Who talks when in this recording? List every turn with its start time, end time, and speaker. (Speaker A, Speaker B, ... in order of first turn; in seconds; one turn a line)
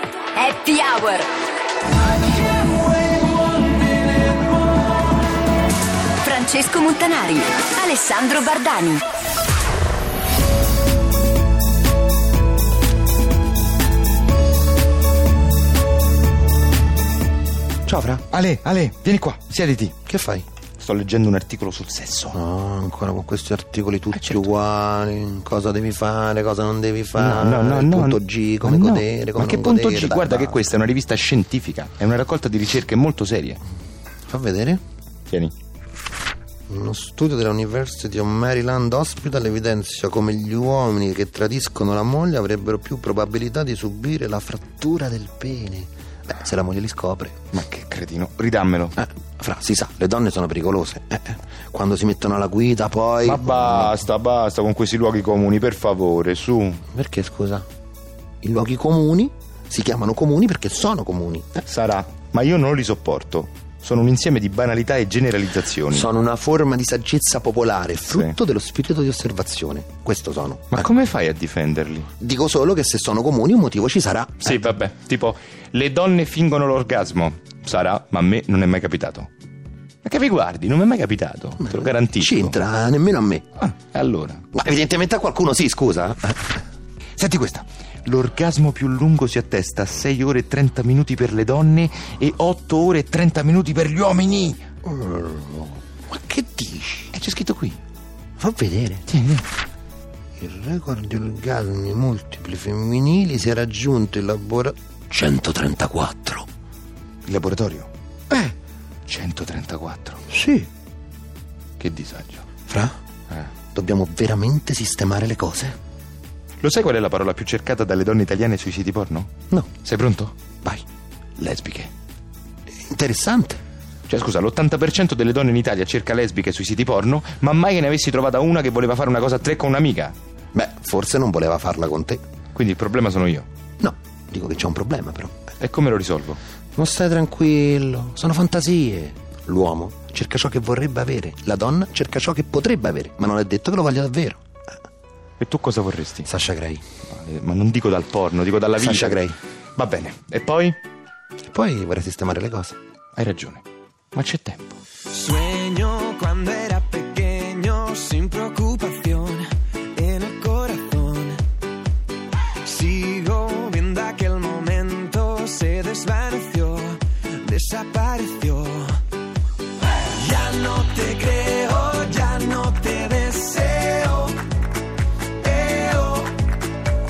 Speaker A: 0.4-1.2
Speaker A: 6.2-9.0
Speaker B: 17.9-18.2
Speaker C: 18.3-20.0
Speaker B: 20.1-20.4
Speaker C: 20.8-22.4
Speaker B: 22.3-30.6
Speaker C: 24.1-24.5
Speaker C: 27.1-33.6
Speaker B: 34.3-34.8
Speaker B: 36.7-47.4
Speaker C: 47.5-49.0
Speaker B: 49.0-54.0
Speaker C: 53.2-56.8
Speaker B: 56.9-57.6
Speaker B: 58.4-61.6
Speaker C: 61.6-66.1
Speaker B: 65.9-70.9
Speaker C: 68.1-68.3
Speaker C: 70.7-72.1
Speaker B: 72.2-74.5
Speaker C: 74.4-79.3
Speaker C: 80.0-82.6
Speaker B: 82.0-83.4
Speaker C: 83.6-84.4
Speaker B: 84.5-86.6
Speaker C: 87.2-94.6
Speaker B: 94.8-97.1
Speaker C: 97.1-97.8
Speaker B: 98.4-99.0
Speaker C: 99.1-99.5
Speaker B: 100.4-106.5
Speaker C: 107.2-107.9
Speaker C: 109.1-110.2
Speaker B: 110.3-110.7
Speaker C: 111.8-112.5
Speaker B: 112.7-113.0
Speaker B: 113.7-115.8
Speaker C: 116.6-120.3
Speaker C: 121.4-121.9
Speaker B: 122.8-123.6
Speaker C: 124.1-130.2
Speaker B: 130.5-132.2
Speaker C: 132.5-133.5
Speaker B: 133.8-135.3
Speaker C: 135.6-136.4
Speaker B: 136.8-144.4
Speaker C: 145.4-146.3
Speaker B: 146.2-146.8
Speaker C: 147.1-150.8
Speaker B: 148.8-149.4
Speaker B: 151.5-152.8
Speaker C: 153.2-154.8
Speaker D: 155.1-161.4
Speaker D: 162.6-169.0
Speaker D: 170.0-174.4
Speaker D: 175.4-176.4